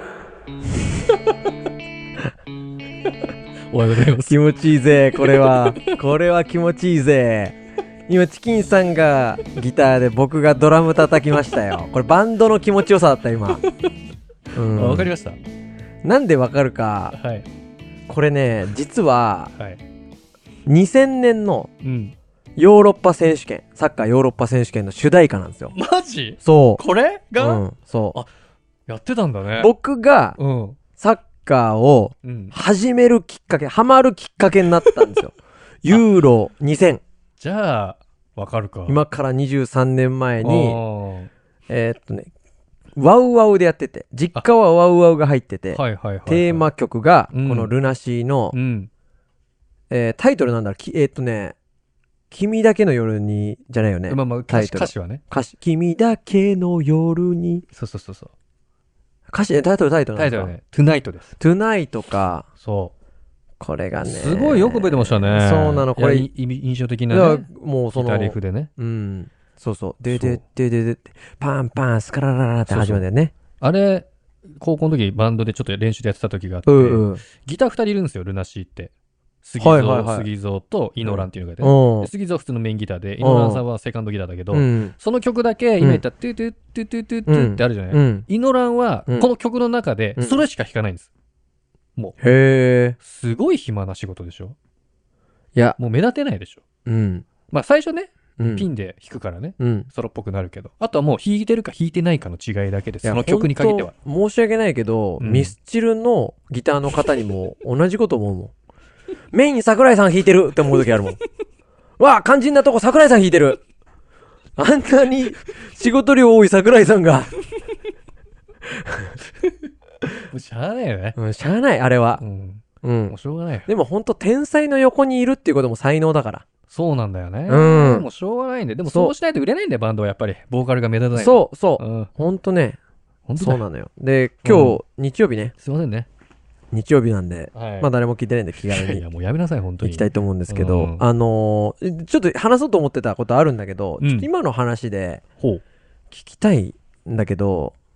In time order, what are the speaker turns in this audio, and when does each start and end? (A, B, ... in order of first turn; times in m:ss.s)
0:03.7-0:04.4 A
0:04.2-0:07.6 B
0:05.2-0:05.9 A
0:08.1-0:13.6 B
0:14.5-0:15.1 B
0:14.6-0:15.4 A
0:16.0-0:17.2 B
0:17.1-0:17.4 A
0:18.1-0:19.5 B
0:20.6-0:21.7 B
0:21.8-0:22.1 A
0:22.6-0:25.7 B
0:25.7-0:28.3 A
0:26.4-0:26.8 B
0:27.4-0:28.2 B
0:28.9-0:29.7 A
0:29.6-0:30.4 B
0:30.4-0:30.8 A
0:31.0-0:37.0 B
0:32.2-0:32.5 A
0:37.4-0:39.0 A
0:38.9-0:40.8 B
0:40.4-0:41.3 A
0:41.7-0:42.3 B
0:43.0-0:48.5 B
0:45.7-0:46.6 A
0:47.3-0:47.7 A
0:48.5-0:48.9 A
0:49.9-0:51.5 B
0:52.3-0:57.6 B
0:54.1-0:55.2 A
0:57.7-0:58.3 A
0:59.3-1:00.5 B
1:00.1-1:01.3 A
1:01.4-1:02.5 B
1:02.6-1:02.9 A
1:03.6-1:06.3 B
1:04.0-1:08.7 A
1:07.1-1:13.3 B
1:10.1-1:10.4 A
1:12.7-1:13.0 A
1:13.6-1:18.9 A
1:16.6-1:17.2 B
1:19.4-1:31.1 A
1:19.6-1:20.3 B
1:21.0-1:22.1 B
1:23.2-1:23.6 B
1:24.5-1:24.9 B
1:27.3-1:28.3 B
1:30.2-1:30.4 B
1:32.2-1:33.0 B
1:33.0-1:34.5 A
1:35.8-1:36.6 A
1:36.8-1:37.2 B
1:37.5-1:43.9 A
1:38.4-1:38.7 B
1:39.6-1:39.9 B
1:43.0-1:48.5 B
1:45.2-1:45.5 A
1:49.3-1:51.2 B
1:52.0-1:53.6 B
1:54.6-1:57.3 B
1:58.7-1:59.1 B
2:00.3-2:01.2 A
2:01.2-2:02.2 B
2:02.2-2:03.7 A
2:02.8-2:03.2 B
2:03.7-2:06.4 B
2:06.7-2:12.1 A
2:07.5-2:08.0 B
2:08.9-2:09.1 B
2:11.1-2:12.8 B
2:13.3-2:13.6 A
2:13.4-2:15.5 B
2:14.4-2:14.8 A
2:15.6-2:16.1 A
2:16.7-2:19.0 B
2:17.5-2:17.9 A
2:18.6-2:21.0 A
2:19.8-2:25.2 B
2:24.0-2:24.3 A
2:26.1-2:27.7 B